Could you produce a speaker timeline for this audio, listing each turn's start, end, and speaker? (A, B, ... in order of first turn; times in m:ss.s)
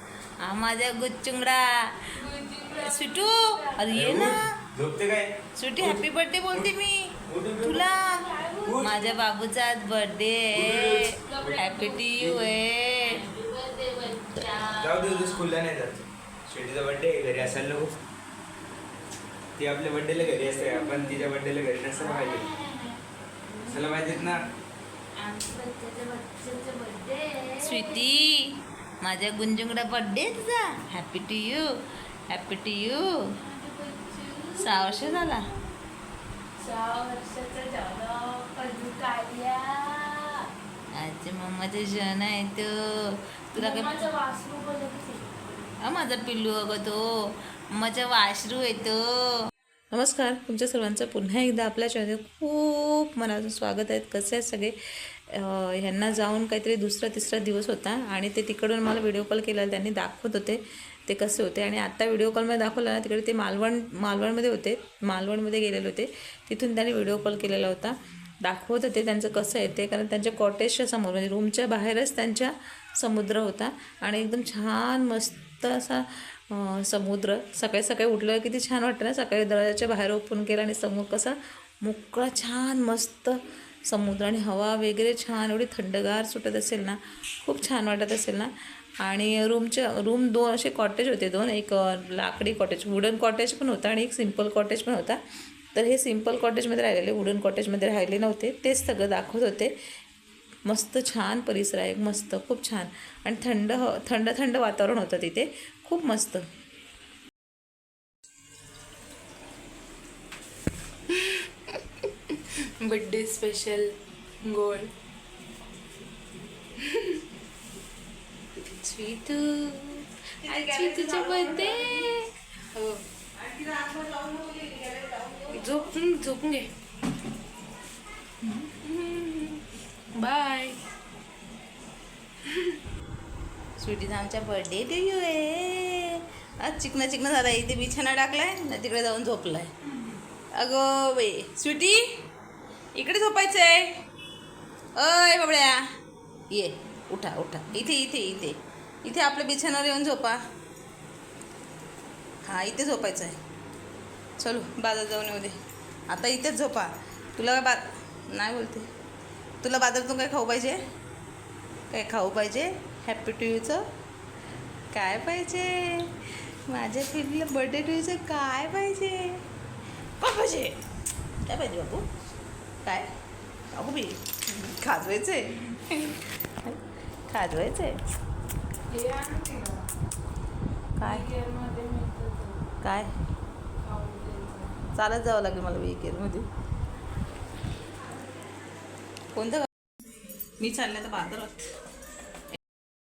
0:00.4-0:02.0 A
0:02.2-0:04.0 B
0:02.8-0:04.5 A
0:03.9-0:06.7 C
0:05.6-0:08.2 A
0:07.3-0:07.8 C
0:07.9-0:09.1 B
0:08.6-0:09.1 C
0:08.8-0:13.2 A
0:10.5-0:12.5 C
0:11.1-0:12.1 B
0:13.1-0:15.4 B
0:14.7-0:17.9 C
0:19.6-0:22.5 C
0:20.4-0:21.2 B
0:22.0-0:22.9 B
0:23.5-0:24.3 B
0:23.6-0:24.4 C
0:25.2-0:28.0 B
0:27.6-0:31.7 A
0:32.3-0:33.1 A
0:33.4-0:35.4 B
0:34.6-0:35.4 A
0:36.6-0:40.4 B
0:41.0-0:44.1 A
0:43.6-0:45.4 B
0:45.8-1:35.2 A
1:35.7-1:39.7 A
1:40.6-1:46.4 A
1:51.1-1:51.5 B
1:52.3-1:53.9 B
1:54.4-1:54.9 B
1:56.9-1:57.2 B
1:58.8-2:03.0 B
2:00.4-2:02.1 A
2:03.4-2:06.0 A
2:05.5-2:06.7 B
2:08.4-2:08.7 A
2:08.8-2:09.6 B
2:10.2-2:10.8 B
2:13.8-2:19.7 A
2:20.5-2:22.0 A
2:23.0-2:23.9 A
2:25.0-2:25.8 A
2:26.5-2:30.4 A
2:32.4-2:33.4 A
2:34.4-2:35.6 A
2:36.1-2:38.9 A
2:39.6-2:40.8 A
2:41.9-2:43.8 A
2:44.9-2:49.4 A
2:50.2-2:50.8 A
2:51.5-2:52.1 A
2:53.7-2:56.8 A
2:57.3-2:58.0 A
2:58.9-2:59.8 B
3:01.0-3:01.2 A
3:01.0-3:02.6 B
3:02.8-3:03.1 A
3:03.8-3:04.8 B
3:05.0-3:06.5 A
3:09.3-3:09.7 A
3:10.6-3:11.7 A